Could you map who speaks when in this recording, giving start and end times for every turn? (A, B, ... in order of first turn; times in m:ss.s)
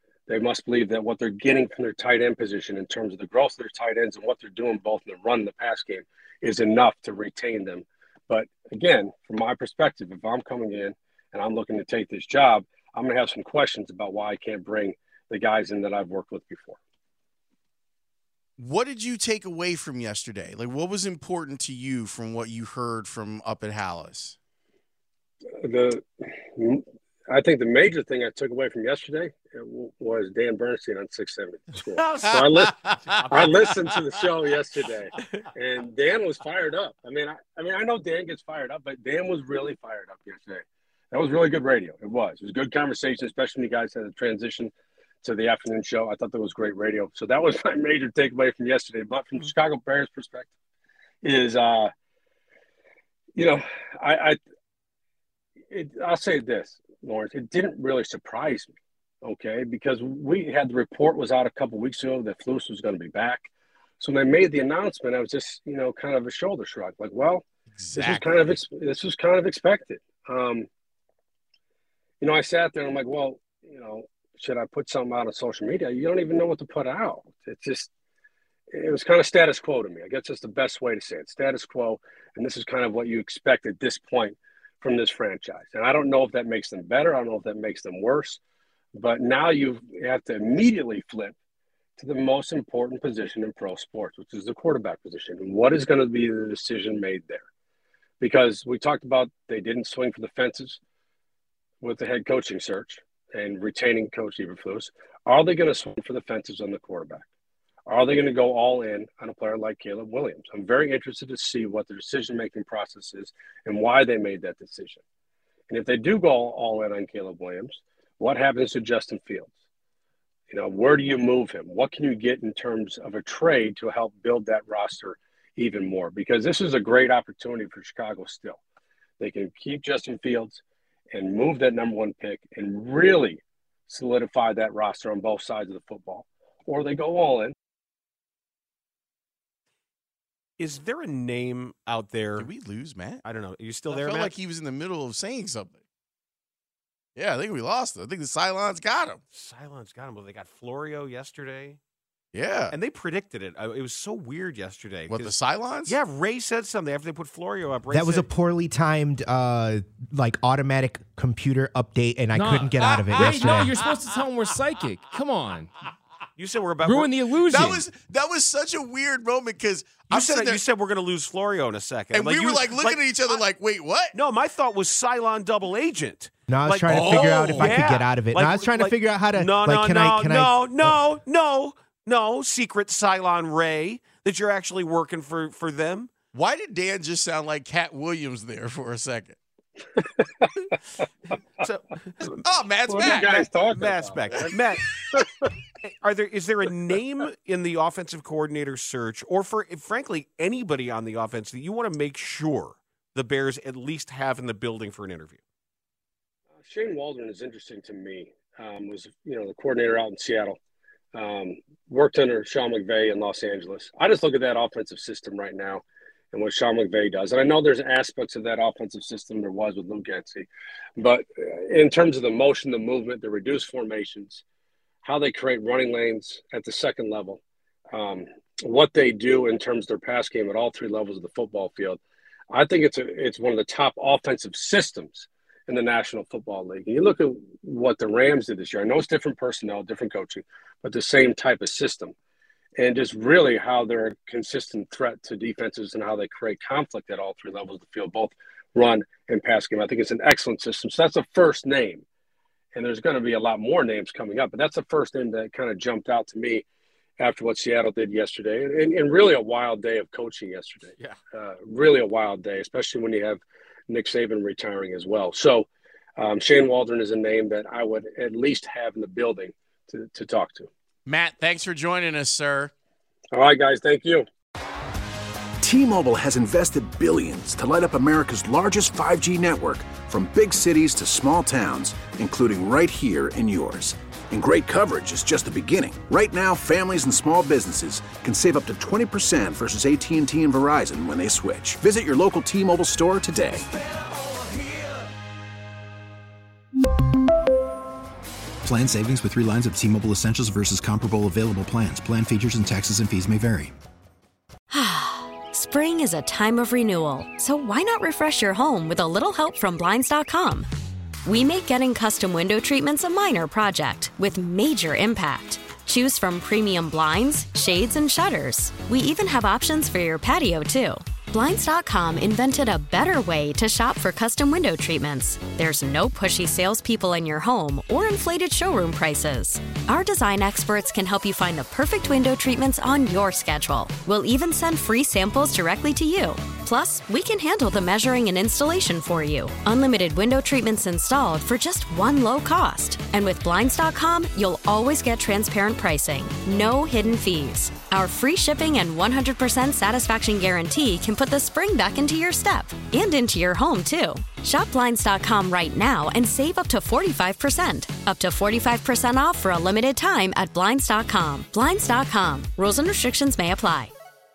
0:00.3-0:16.8 A
0:18.6-0:24.4 B
0:25.6-0:44.7 A
0:33.1-0:33.6 C
0:45.2-0:50.5 A
0:51.2-0:51.9 A
0:53.4-0:54.4 A
0:55.7-1:07.4 A
1:07.7-1:08.6 B
1:07.9-1:10.7 A
1:12.2-1:17.9 A
1:18.7-1:28.4 A
1:28.9-1:31.3 A
1:32.0-1:37.4 A
1:38.2-1:40.8 A
1:41.8-1:47.2 A
1:47.9-1:55.0 A
1:55.7-1:59.5 A
2:00.5-2:08.6 A
2:09.2-2:17.5 A
2:20.6-2:22.5 C
2:22.4-2:23.2 B
2:23.2-2:24.3 C
2:23.9-2:25.8 B
2:27.2-2:29.2 B
2:29.3-2:31.8 C
2:32.3-2:32.7 B
2:32.7-2:38.3 C
2:35.1-2:36.0 B
2:37.9-2:43.8 D
2:42.3-2:45.7 E
2:46.4-2:47.1 C
2:46.8-2:47.9 E
2:47.5-2:50.6 B
2:50.1-2:53.4 C
2:52.1-2:54.1 B
2:54.1-3:06.1 C
2:56.5-3:01.0 D
2:56.9-2:57.9 B
3:06.3-3:09.4 B
3:10.0-3:10.5 A
3:11.6-3:12.4 C
3:12.4-3:13.5 B
3:12.9-3:14.6 A
3:13.0-3:14.8 C
3:15.1-3:15.5 A
3:15.8-3:25.4 C
3:26.6-3:30.6 A
3:31.1-3:44.4 A
3:45.0-3:47.4 A
3:47.9-3:52.0 A
3:52.5-4:02.1 A
4:02.8-4:12.0 A
4:12.7-4:16.6 A
4:17.2-4:30.7 A
4:31.0-4:32.7 B
4:33.3-4:34.2 A
4:35.6-4:53.7 F
4:58.6-5:03.7 G
5:04.7-5:10.7 H
5:11.2-6:03.9 H